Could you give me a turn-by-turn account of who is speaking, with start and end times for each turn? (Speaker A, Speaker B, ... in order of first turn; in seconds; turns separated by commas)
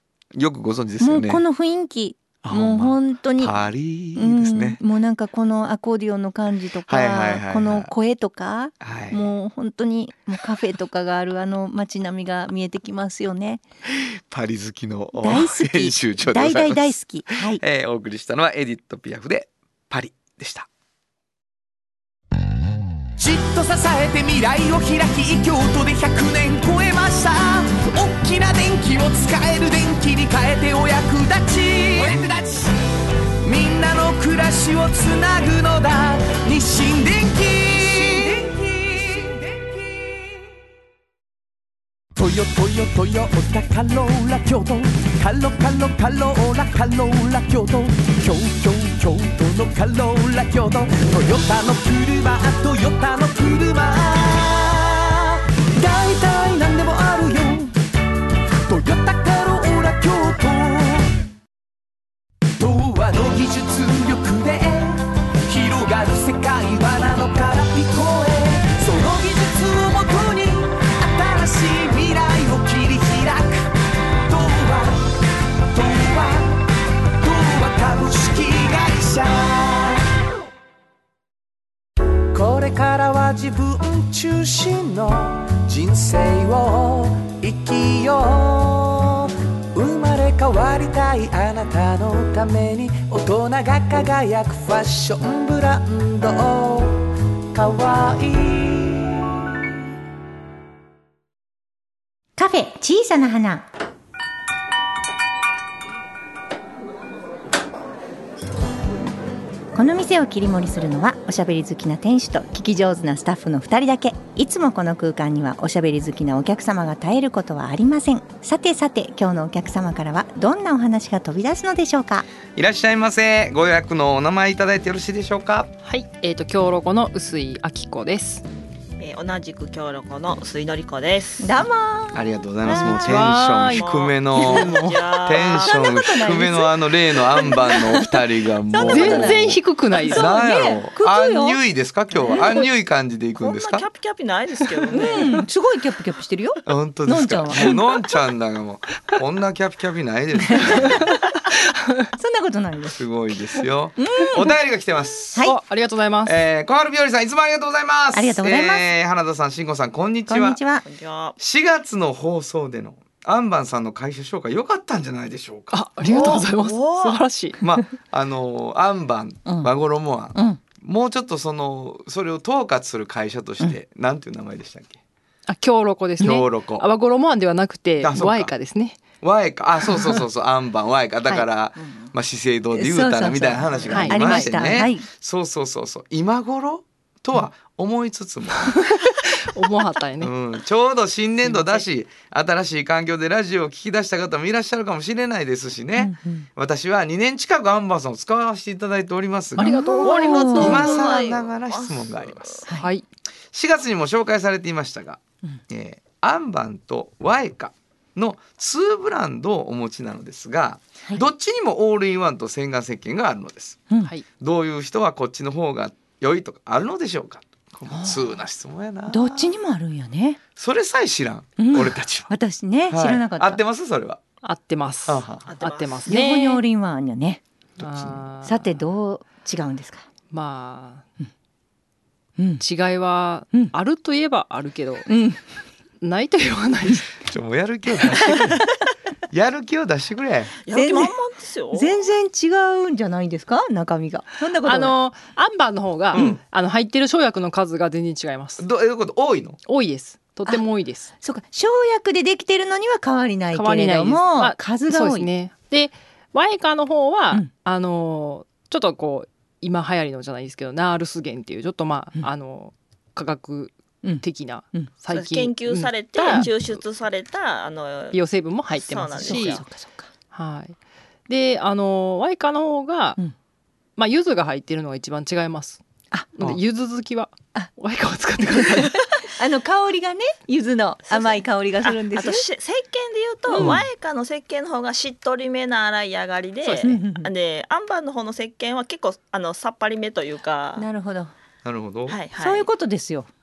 Speaker A: 0.3-1.4, Speaker B: 1.0-3.5, Speaker A: 2.4-4.8, Speaker B: 4.1-13.6, Speaker A: 6.9-7.9, Speaker A: 8.8-9.3, Speaker A: 13.9-20.7, Speaker B: 15.1-17.6, Speaker C: 23.2-32.4, Speaker C: 33.4-40.1, Speaker A: 37.7-38.0, Speaker C: 42.2-57.7, Speaker C: 58.7-61.1, Speaker C: 62.6-73.7, Speaker C: 74.2-75.0, Speaker C: 75.7-76.6, Speaker C: 77.2-80.0, Speaker C: 82.3-97.0, Speaker C: 97.5-99.3, Speaker B: 102.4-103.6, Speaker B: 109.7-122.2, Speaker A: 122.5-125.7, Speaker D: 125.8-128.4, Speaker E: 129.0-131.6, Speaker B: 131.4-133.2, Speaker A: 132.1-143.8, Speaker D: 132.7-135.2, Speaker E: 133.7-135.8, Speaker B: 135.6-138.0, Speaker B: 138.7-141.6, Speaker D: 138.8-140.3, Speaker E: 143.4-145.4, Speaker D: 144.9-145.3, Speaker B: 144.9-147.9, Speaker A: 146.7-151.1, Speaker B: 150.4-151.0, Speaker B: 152.2-153.0, Speaker A: 152.9-155.4, Speaker B: 154.0-154.5, Speaker D: 155.4-156.3, Speaker A: 156.2-160.6, Speaker B: 158.1-158.9, Speaker B: 160.3-160.8, Speaker E: 160.8-161.4, Speaker A: 161.4-165.8, Speaker D: 165.7-167.6, Speaker E: 166.0-167.2, Speaker A: 167.6-175.0, Speaker B: 170.3-170.6, Speaker D: 175.5-179.0, Speaker A: 176.2-176.8, Speaker A: 178.0-178.5, Speaker A: 179.2-188.7, Speaker B: 182.7-185.1, Speaker E: 183.7-184.0, Speaker D: 183.9-184.5, Speaker D: 188.9-190.3, Speaker A: 190.2-202.6, Speaker D: 191.5-191.8, Speaker B: 196.0-196.5, Speaker D: 199.6-201.0, Speaker B: 199.6-200.9, Speaker E: 200.0-202.6, Speaker D: 202.8-203.0, Speaker A: 203.5-213.8, Speaker A: 214.4-219.5, Speaker B: 219.1-220.4, Speaker A: 220.6-222.3, Speaker B: 221.6-223.6, Speaker A: 222.9-224.2, Speaker D: 224.4-226.6, Speaker A: 225.1-225.4, Speaker E: 225.4-226.1, Speaker B: 226.1-227.4, Speaker A: 227.8-228.2, Speaker D: 227.8-228.6, Speaker B: 228.4-230.0, Speaker D: 230.3-231.1, Speaker B: 232.4-232.6, Speaker D: 232.6-235.1, Speaker B: 235.1-235.4, Speaker D: 236.0-237.2, Speaker A: 237.2-238.7, Speaker A: 239.3-240.5, Speaker E: 240.6-242.0, Speaker B: 240.7-241.1, Speaker B: 241.7-244.9, Speaker D: 244.6-248.6, Speaker B: 246.1-246.4, Speaker A: 246.1-246.4, Speaker A: 248.6-249.6, Speaker D: 249.7-251.1, Speaker B: 251.2-255.3, Speaker D: 253.5-266.5, Speaker B: 264.0-264.9, Speaker E: 265.1-268.2, Speaker D: 268.1-269.6, Speaker E: 268.8-269.6, Speaker B: 269.2-270.1, Speaker D: 270.3-270.8, Speaker D: 271.3-273.2, Speaker D: 274.0-275.8, Speaker D: 276.3-279.2, Speaker B: 278.5-282.5, Speaker E: 281.1-290.9, Speaker B: 283.5-283.8, Speaker D: 286.6-286.9, Speaker B: 286.8-287.3, Speaker B: 290.8-291.3, Speaker A: 291.6-292.2, Speaker E: 292.1-292.7, Speaker B: 292.4-293.3